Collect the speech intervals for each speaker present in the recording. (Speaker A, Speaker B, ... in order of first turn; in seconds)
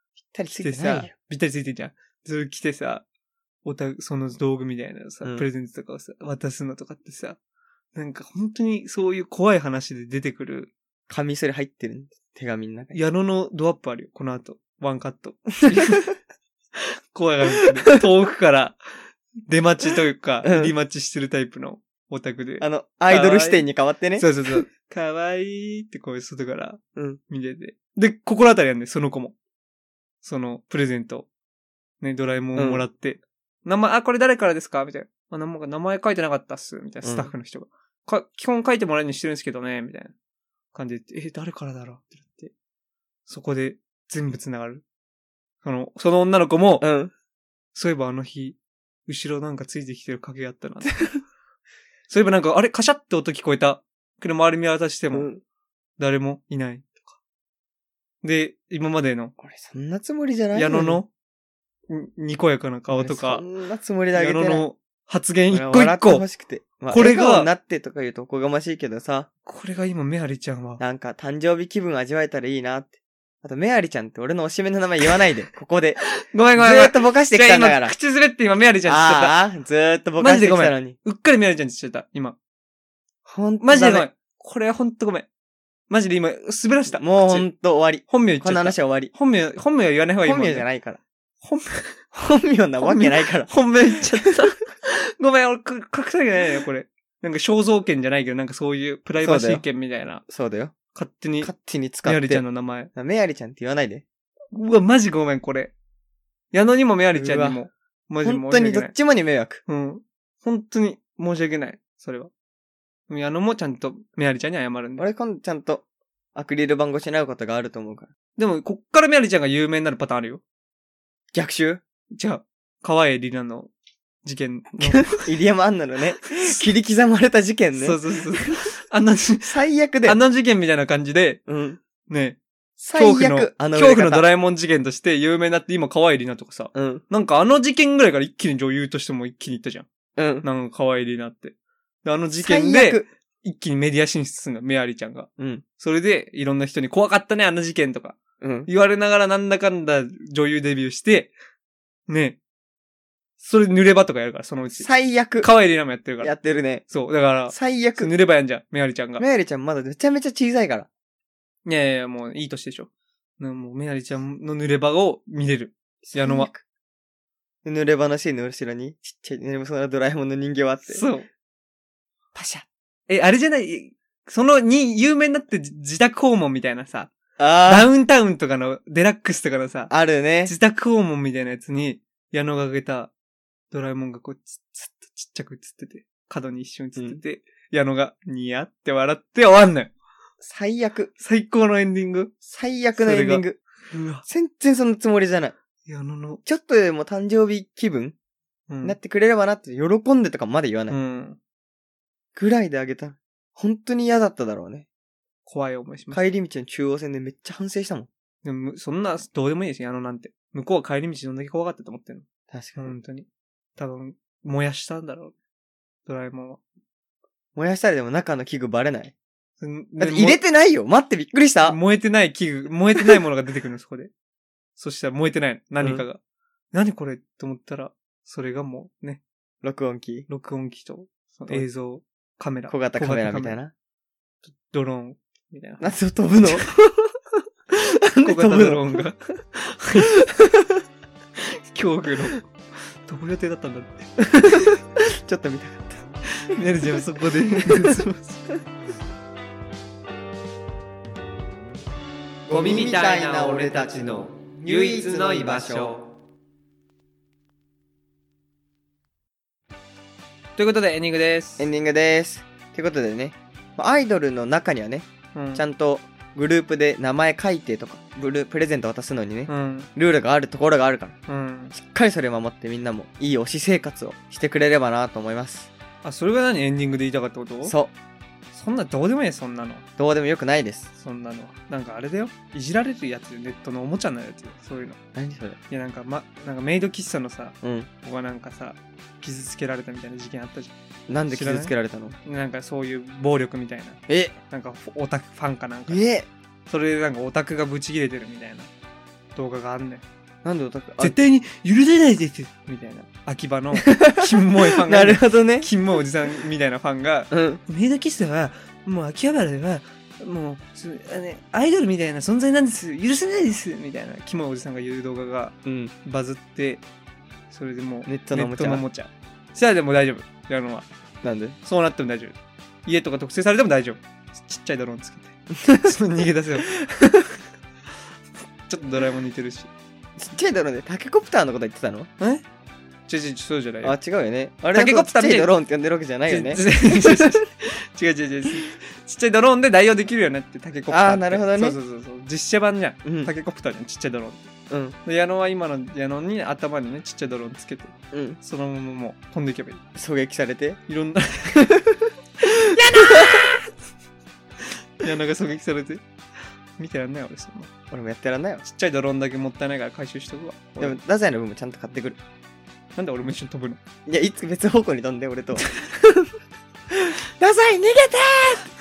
Speaker A: 0.3-1.1, 11.1-13.0, 15.8-16.1, 20.4-20.7, 22.6-24.6, 32.6-32.9, 37.0-37.3, 46.8-47.1, 55.1-55.4, 59.4-61.0, 62.9-64.6, 65.5-69.3, 70.8-76.0, 76.5-77.9, 78.9-81.0, 83.3-84.1, 86.9-89.1, 90.2-91.0, 92.1-93.6, 99.2-99.7, 100.3-100.8, 101.4-104.0, 107.1-107.6, 108.2-109.6, 115.0-118.1, 121.3-121.8, 124.8-128.5, 129.4-130.2, 131.5-131.8, 132.8-134.2, 136.8-137.0, 140.2-140.5, 142.4-143.1, 145.4-145.6, 148.4-148.7, 154.8-155.5, 156.2-156.8, 157.5-158.1, 159.2-160.9, 166.0-166.6, 167.7-171.0, 172.3-172.7, 177.4-177.9, 179.9-180.5, 190.4-191.1, 192.4-193.6, 194.3-195.6, 196.4-198.2, 198.8-201.0, 202.3-204.9, 206.1-208.1, 212.5-212.9, 217.6-219.1, 220.0-221.8, 229.6-230.3, 232.7-233.7, 235.8-236.7, 238.1-239.1, 240.2-240.7, 244.5-246.0, 247.6-248.1, 252.5-255.9, 261.6-271.2, 271.7-275.7, 277.6-277.9, 280.0-280.9, 285.2-285.6, 287.6-287.9, 291.1-292.2, 294.1-294.4, 295.9-296.3, 300.4-301.1, 303.8-305.7, 307.3-307.6, 315.6-315.9, 318.1-318.8, 321.2-321.6, 325.6-325.9, 326.8-327.3, 330.2-332.1, 333.8-337.4, 340.9-341.8, 343.1-343.3, 344.7-345.0, 348.1-348.4, 349.9-350.8, 351.5-353.6, 357.9-358.6, 360.8-362.2, 364.1-366.3, 366.9-368.7
Speaker B: 0.5-3.0, 3.6-7.4, 7.9-10.7, 12.9-16.1, 16.8-18.8, 19.4-23.7, 24.2-29.4, 30.2-31.3, 32.0-40.1, 40.7-42.5, 43.3-44.8, 45.6-46.9, 47.8-51.1, 52.1-55.3, 56.0-57.1, 58.2-59.3, 60.5-61.1, 61.9-63.5, 64.1-66.2, 66.9-67.5, 69.5-70.8, 76.0-79.4, 80.2-82.4, 83.6-85.3, 85.9-87.5, 88.1-90.7, 91.4-92.0, 92.8-100.2, 100.9-101.5, 102.0-102.9, 104.5-105.7, 106.5-108.9, 109.7-112.3, 113.1-115.1, 118.4-120.4, 122.2-123.7, 124.2-125.3, 127.8-131.4, 132.1-132.4, 132.9-139.9, 140.4-151.3, 152.1-152.4, 153.4-154.9, 155.4-156.3, 156.9-159.2, 161.7-166.5, 170.9-171.3, 173.1-179.9, 180.4-183.1, 183.7-189.9, 191.2-192.3, 192.9-194.2, 195.9-196.4, 198.7-199.0, 200.9-201.4, 205.5-206.2, 208.4-212.2, 212.8-215.3, 216.1-216.6, 219.6-220.4, 221.6-224.1, 224.8-226.2, 226.7-229.2, 230.3-233.6, 234.4-235.9, 236.5-237.0, 238.1-240.3, 241.4-244.8, 246.3-248.5, 252.5-256.0, 260.6-261.7, 265.4-265.6, 269.5-269.9, 271.3-271.8, 276.0-277.8, 278.5-279.8, 281.0-285.0, 285.7-290.7, 291.3-291.7, 292.2-296.0, 296.7-298.7, 299.4-300.1, 301.0-316.8, 317.5-320.9, 321.6-326.7, 328.7-329.7, 332.2-332.4, 333.1-333.9, 334.7-335.5, 336.3-344.5, 345.1-349.8, 350.9-351.7, 352.4-353.7, 355.0-356.0, 356.8-357.7, 358.6-361.0, 363.0-363.8